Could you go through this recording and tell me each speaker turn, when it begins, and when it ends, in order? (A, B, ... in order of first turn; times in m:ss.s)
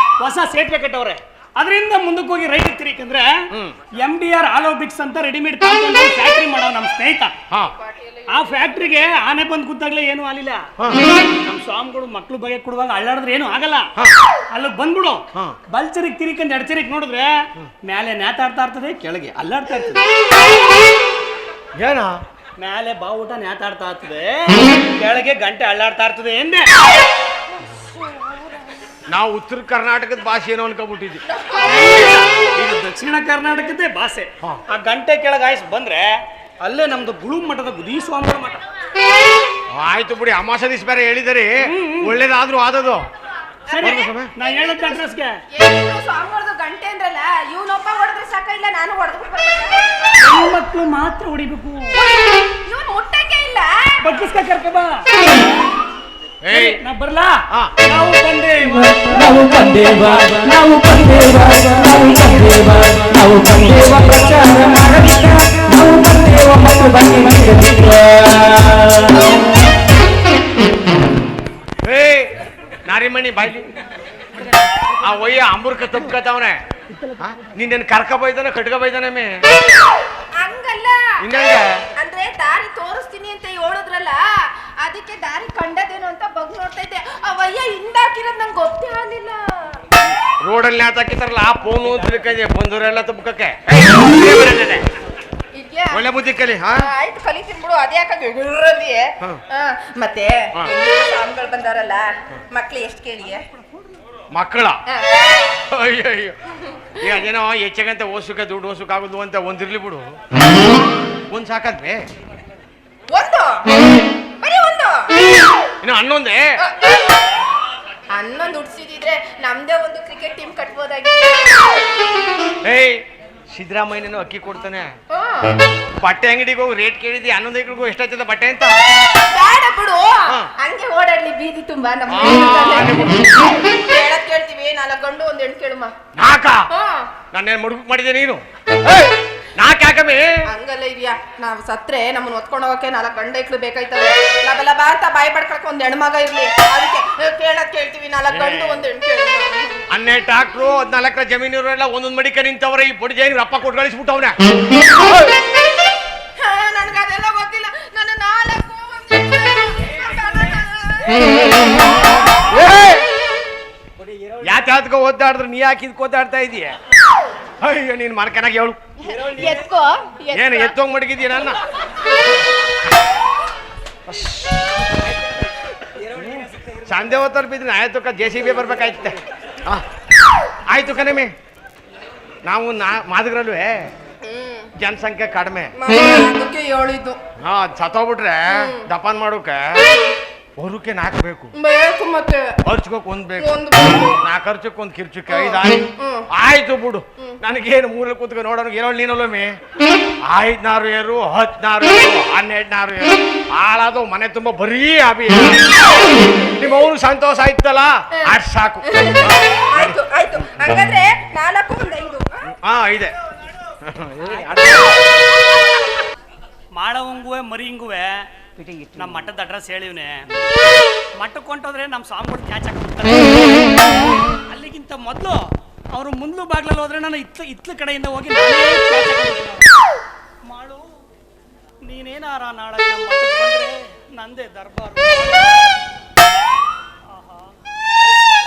0:00.2-0:07.4 A
0:03.5-0:03.8 B
0:07.7-0:08.9 C
0:08.3-0:10.7 A
0:10.8-0:11.1 B
0:11.2-0:13.9 A
0:14.5-0:20.1 A
0:21.8-0:22.2 B
0:22.6-0:26.7 A
0:27.8-0:28.3 C
0:29.1-0:31.2 B
0:31.2-0:32.2 C
0:31.6-0:38.6 A
0:39.7-0:43.0 B
0:41.6-0:42.2 A
0:43.7-0:50.3 C
0:43.7-0:45.4 A
0:43.8-0:44.3 B
0:50.2-0:52.0 A
0:51.9-0:54.1 C
0:54.0-0:55.3 A
0:56.4-0:56.8 B
0:56.5-1:05.8 A
0:57.5-0:57.7 B
0:58.9-1:09.2 D
1:11.8-1:13.7 B
1:15.0-1:16.6 B
1:16.9-1:17.4 A
1:17.2-1:19.4 B
1:20.4-1:21.4 C
1:21.2-1:21.8 B
1:22.0-1:29.8 C
1:30.4-1:34.8 B
1:35.5-1:36.0 C
1:35.9-1:36.9 B
1:36.8-1:43.4 C
1:44.3-1:44.8 B
1:44.9-1:45.3 C
1:45.7-1:46.4 B
1:46.5-1:47.2 C
1:47.0-1:50.2 B
1:51.3-1:52.1 B
1:53.1-1:53.8 C
1:54.4-1:55.2 C
1:55.8-1:56.5 B
1:56.6-1:57.0 C
1:58.1-2:01.8 C
2:02.6-2:04.9 B
2:05.1-2:05.6 C
2:06.0-2:08.8 B
2:09.2-2:15.9 C
2:12.1-2:13.3 B
2:16.2-2:16.7 B
2:16.7-2:17.1 C
2:17.3-2:20.4 B
2:20.5-2:29.8 C
2:28.3-2:28.9 B
2:29.9-2:34.4 B
2:36.4-2:43.0 C
2:42.3-2:43.0 B
2:44.0-2:44.6 A
2:44.4-2:46.8 B
2:47.6-2:48.8 B
2:49.0-2:50.7 C
2:49.1-2:49.6 A
2:50.3-2:51.6 B
2:51.8-2:52.1 C
2:54.1-2:54.6 B
2:56.0-2:56.7 A
2:56.8-2:59.8 B
3:00.7-3:01.3 B
3:02.4-3:03.9 B
3:04.2-3:04.7 C
3:04.8-3:05.7 B
3:05.8-3:07.2 C
3:07.4-3:09.8 B
3:08.5-3:08.8 C
3:09.8-3:10.1 C
3:10.6-3:11.5 B
3:11.5-3:12.6 C
3:12.6-3:13.6 B
3:13.4-3:14.2 C
3:14.2-3:19.5 B
3:15.3-3:16.2 C
3:20.2-3:30.0 B
3:28.1-3:32.5 C
3:32.5-3:33.1 B
3:33.8-3:35.0 B
3:34.7-3:36.1 C
3:36.7-3:38.3 A
3:38.7-3:39.0 D
3:38.9-3:40.2 A
3:41.2-3:49.7 A
3:50.4-3:51.0 A
3:51.8-3:55.7 A
3:57.1-3:57.5 A